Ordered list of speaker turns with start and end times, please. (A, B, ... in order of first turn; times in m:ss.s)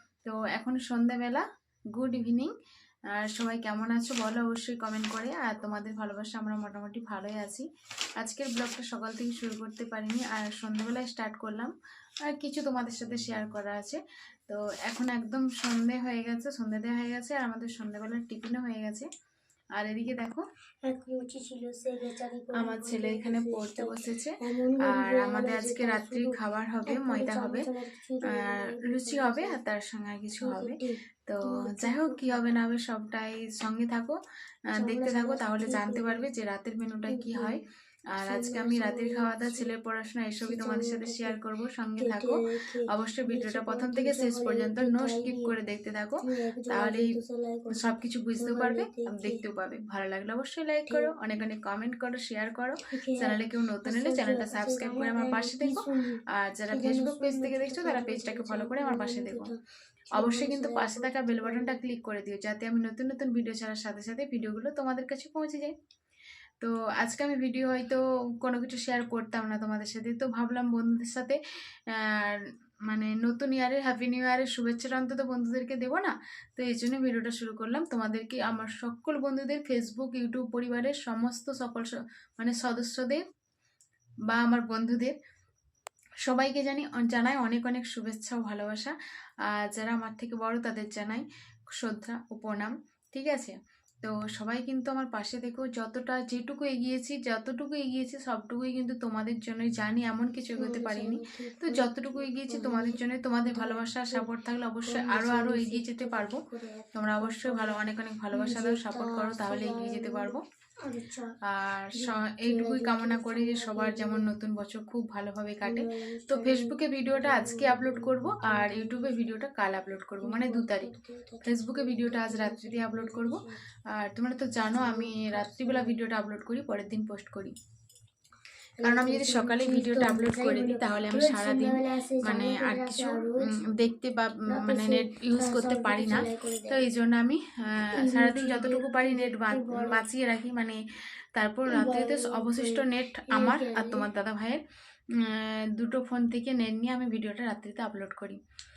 0:00.2-0:01.4 A
0:02.0-0:02.5 A
0:03.2-0:07.7 A
0:08.2-0:11.7 A
0:12.2-0:19.1 A
0:19.8-0:20.4 A
0:20.8-0:29.6 B
0:22.6-0:27.7 A
0:28.3-0:34.2 A
0:30.4-0:32.6 B
0:34.8-0:37.6 A
0:34.8-0:36.3 B
0:37.1-0:37.6 B
0:38.1-0:47.1 A
0:38.3-0:39.7 B
0:40.4-0:41.4 B
0:42.0-0:45.5 B
0:46.2-0:49.4 B
0:47.7-0:59.5 A
0:50.9-0:51.1 B
0:52.9-0:56.2 B
0:56.7-0:59.6 B
1:00.2-1:05.7 A
1:00.2-1:01.8 B
1:06.6-1:11.4 A
1:11.9-1:23.2 A
1:24.3-1:25.2 A
1:26.2-1:28.9 A
1:29.5-1:46.4 A
1:40.6-1:44.3 B
1:44.9-1:51.3 B
1:47.0-1:50.4 A
1:51.5-2:00.9 A
1:51.9-1:54.3 B
1:55.6-1:59.4 B
2:00.2-2:03.6 B
2:01.4-2:07.6 A
2:04.7-2:06.1 B
2:08.8-2:13.5 B
2:08.8-2:20.8 A
2:14.5-2:16.8 B
2:18.0-2:20.1 B
2:21.4-2:24.6 A
2:21.7-2:24.1 B
2:25.2-2:28.4 A